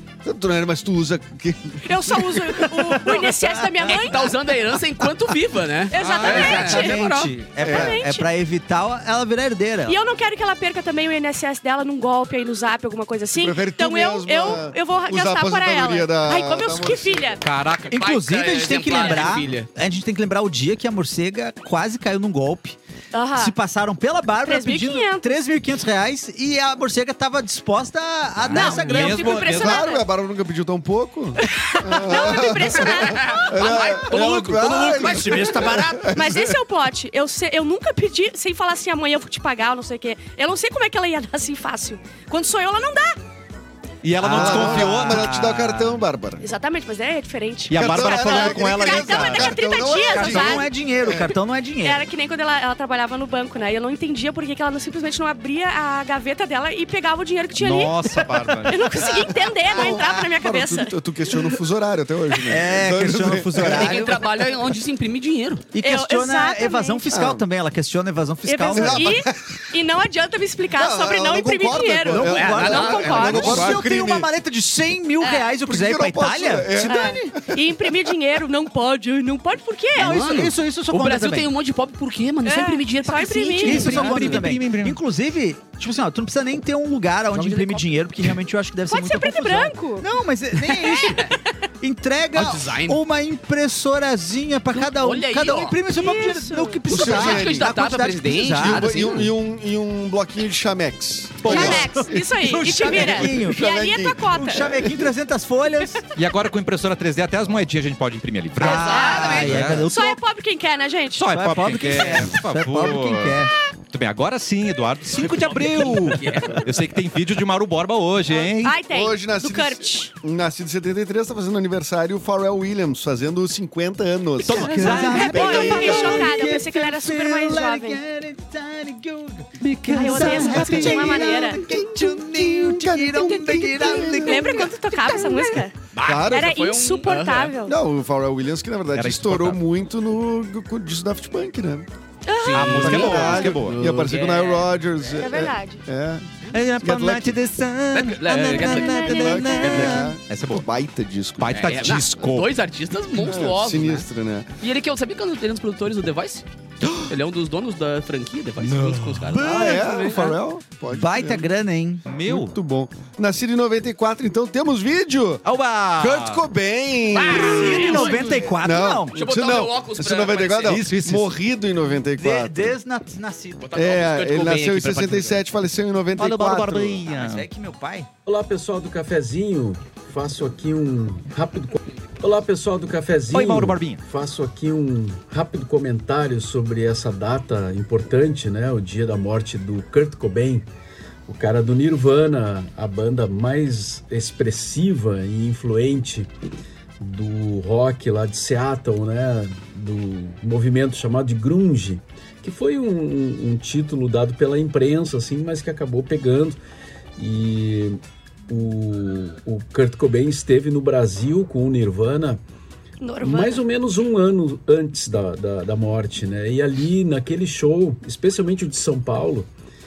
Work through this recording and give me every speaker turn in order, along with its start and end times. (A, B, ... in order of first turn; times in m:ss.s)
0:00.2-0:03.4 A
0:01.8-0:04.3 B
0:03.8-0:07.3 C
0:05.9-0:08.3 B
0:05.9-0:06.8 D
0:06.2-0:10.0 E
0:07.6-0:08.0 A
0:09.9-0:17.4 B
0:13.3-0:17.4 A
0:17.4-0:18.0 D
0:17.9-0:22.8 E
0:17.9-0:19.7 C
0:23.1-0:23.5 B
0:23.4-0:29.4 E
0:24.4-0:25.3 B
0:28.5-0:36.6 A
0:28.5-0:30.0 B
0:28.6-0:29.9 D
0:31.4-0:33.8 B
0:33.1-0:35.7 C
0:34.7-0:36.1 E
0:36.1-0:43.2 B
0:44.0-0:45.4 D
0:44.2-0:46.0 E
0:44.2-0:46.4 A
0:46.4-0:50.7 B
0:47.7-0:49.7 D
0:47.7-0:51.3 A
0:50.0-0:52.0 E
0:51.8-1:01.0 B
0:57.6-0:58.9 D
0:59.0-1:04.2 A
1:02.4-1:04.3 E
1:03.6-1:05.6 C
1:05.7-1:09.2 E
1:05.8-1:07.0 B
1:07.1-1:07.4 A
1:08.4-1:13.6 B
1:08.7-1:09.5 A
1:10.7-1:14.3 A
1:12.1-1:17.1 E
1:12.3-1:13.8 C
1:15.2-1:15.6 B
1:15.7-1:17.6 A
1:16.8-1:20.2 B
1:19.9-1:21.5 E
1:20.0-1:24.4 C
1:22.4-1:24.2 B
1:23.6-1:31.3 E
1:23.7-1:25.0 D
1:27.3-1:27.8 C
1:28.9-1:30.1 B
1:30.7-1:31.4 B
1:31.8-1:39.2 E
1:32.3-1:33.0 C
1:34.7-1:35.8 C
1:35.9-1:36.8 B
1:36.9-1:37.7 A
1:36.9-1:39.3 C
1:38.5-1:45.0 A
1:41.4-1:42.0 D
1:41.4-1:44.8 B
1:41.4-1:43.6 E
1:44.2-1:46.0 E
1:46.1-1:49.9 D
1:48.6-1:50.2 E
1:48.6-1:49.8 C
1:48.6-1:51.2 B
1:51.2-1:53.4 D
1:51.3-1:53.5 E
1:53.9-1:58.8 D
1:55.2-1:56.7 C
1:58.3-2:00.1 B
1:58.9-2:06.5 A
2:04.4-2:05.9 D
2:04.5-2:15.6 E
2:04.6-2:08.0 B
2:09.6-2:11.3 D
2:09.9-2:11.6 B
2:10.5-2:14.7 A
2:13.8-2:15.7 B
2:15.9-2:17.5 C
2:16.0-2:16.6 A
2:16.3-2:17.7 B
2:17.6-2:21.9 A
2:18.9-2:19.6 D
2:22.2-2:23.3 B
2:22.4-2:24.7 C
2:22.5-2:23.8 D
2:22.8-2:26.3 A
2:25.1-2:25.8 B
2:26.5-2:30.6 D
2:26.8-2:27.4 A
2:27.9-2:30.0 C
2:28.5-2:30.1 B
2:29.0-2:32.0 A
2:31.4-2:32.5 D
2:31.5-2:34.1 C
2:33.1-2:34.5 A
2:34.6-2:36.4 C
2:36.8-2:37.1 D
2:37.1-2:40.3 C
2:38.6-2:39.4 D
2:39.3-2:40.3 E
2:39.4-2:41.5 A
2:40.9-2:42.0 E
2:42.0-2:42.5 D
2:42.2-2:45.4 A
2:45.4-2:46.4 D
2:46.0-2:52.8 A
2:47.1-2:48.4 C
2:47.1-2:49.1 E
2:49.1-2:50.8 C
2:50.6-2:51.3 D
2:52.1-2:53.7 E
2:53.6-2:55.4 C
2:53.8-2:57.0 A
2:56.2-2:57.4 D
2:57.0-2:58.1 E
2:58.2-3:10.6 F
3:03.3-3:04.0 D
3:11.3-3:16.3 F
3:17.0-3:26.6 F
3:27.2-3:32.4 F
3:33.0-3:33.6 B
3:33.2-3:39.5 F